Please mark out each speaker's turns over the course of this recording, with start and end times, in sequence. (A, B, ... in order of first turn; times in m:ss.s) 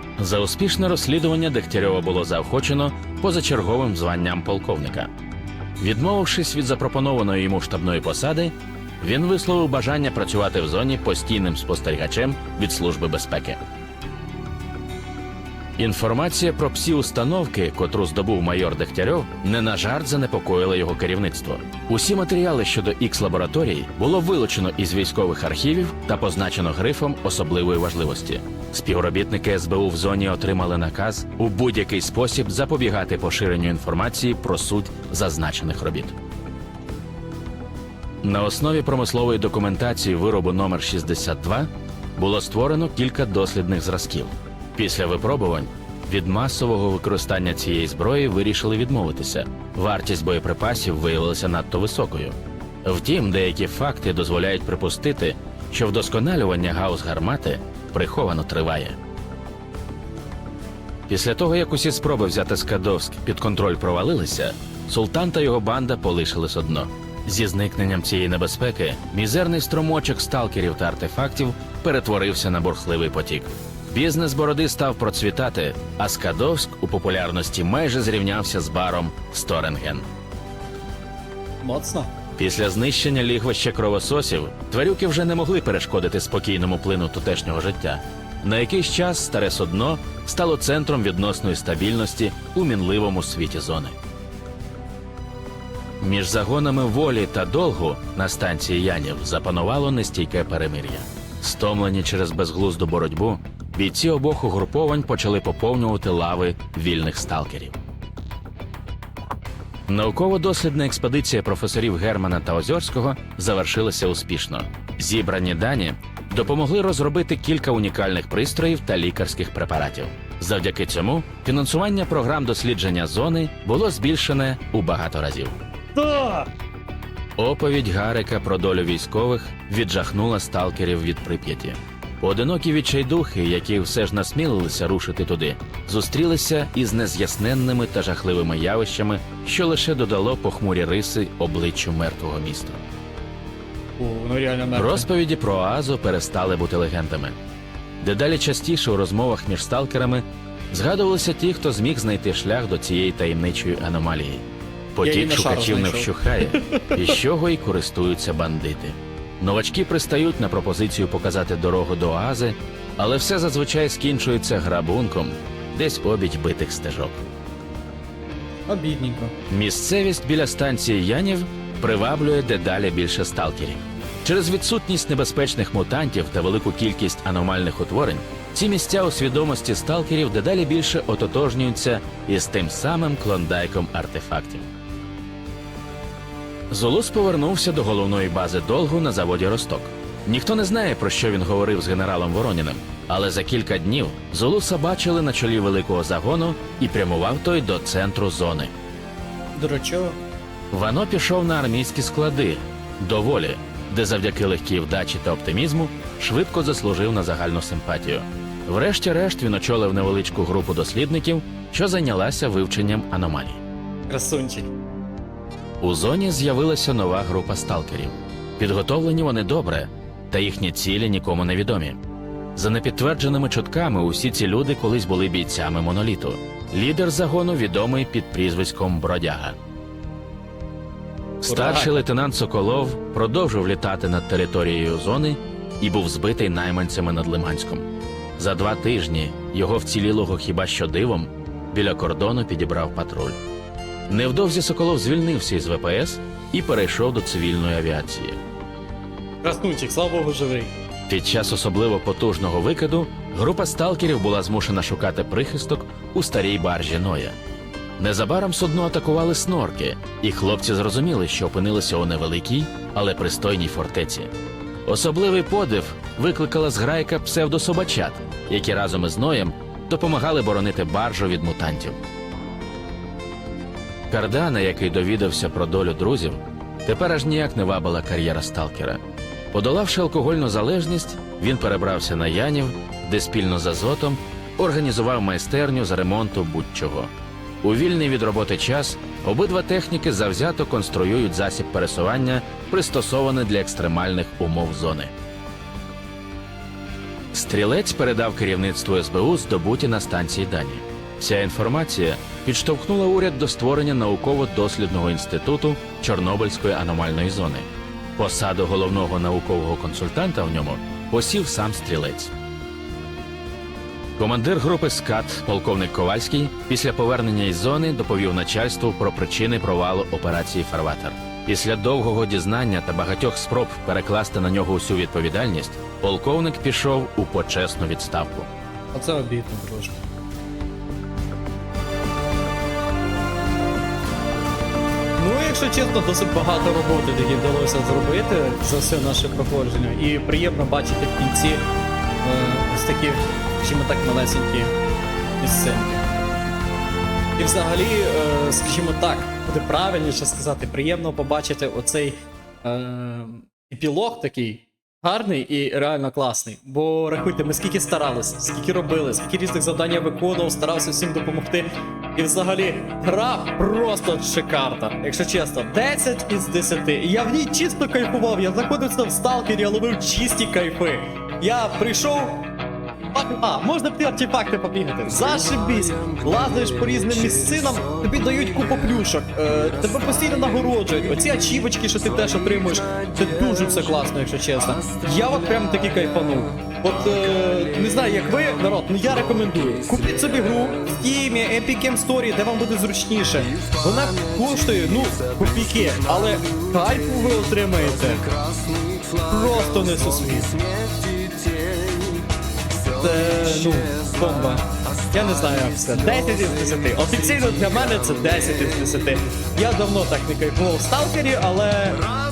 0:00.2-0:05.1 A
0:05.8-0:13.6 A
0:15.8-0:36.2 A
0:38.2-0:59.0 A
1:01.1-1:20.1 A
1:21.6-1:22.1 B
1:22.4-1:34.0 A
1:36.0-1:47.8 A
1:49.9-2:05.6 A
2:06.0-2:06.5 B
2:07.4-2:22.8 A
2:24.0-2:25.1 B
2:24.8-2:27.4 A
2:28.0-2:47.3 A
2:35.0-2:37.2 B
2:48.6-2:49.3 B
2:49.5-3:04.7 A
3:06.7-3:18.7 A
3:19.5-3:20.2 B
3:20.7-3:33.6 A
3:34.1-3:34.7 B
3:35.8-3:42.0 A
3:42.5-3:49.6 A
3:51.4-3:57.8 A
3:51.4-3:52.0 B
3:58.4-4:03.4 A
4:04.1-4:08.4 A
4:09.4-4:10.7 B
4:11.1-4:17.4 A
4:18.0-4:24.3 A
4:24.8-4:32.0 A
4:34.1-4:39.0 A
4:39.5-4:47.1 A
4:47.6-4:55.1 A
4:57.3-5:12.3 A
5:14.2-5:28.5 A
5:28.9-5:30.0 B
5:35.2-5:41.7 B
5:42.2-5:44.7 B
5:45.4-5:46.0 B
5:47.4-6:12.5 B
6:13.1-6:38.3 B
6:39.2-6:40.6 B
6:42.8-6:52.1 B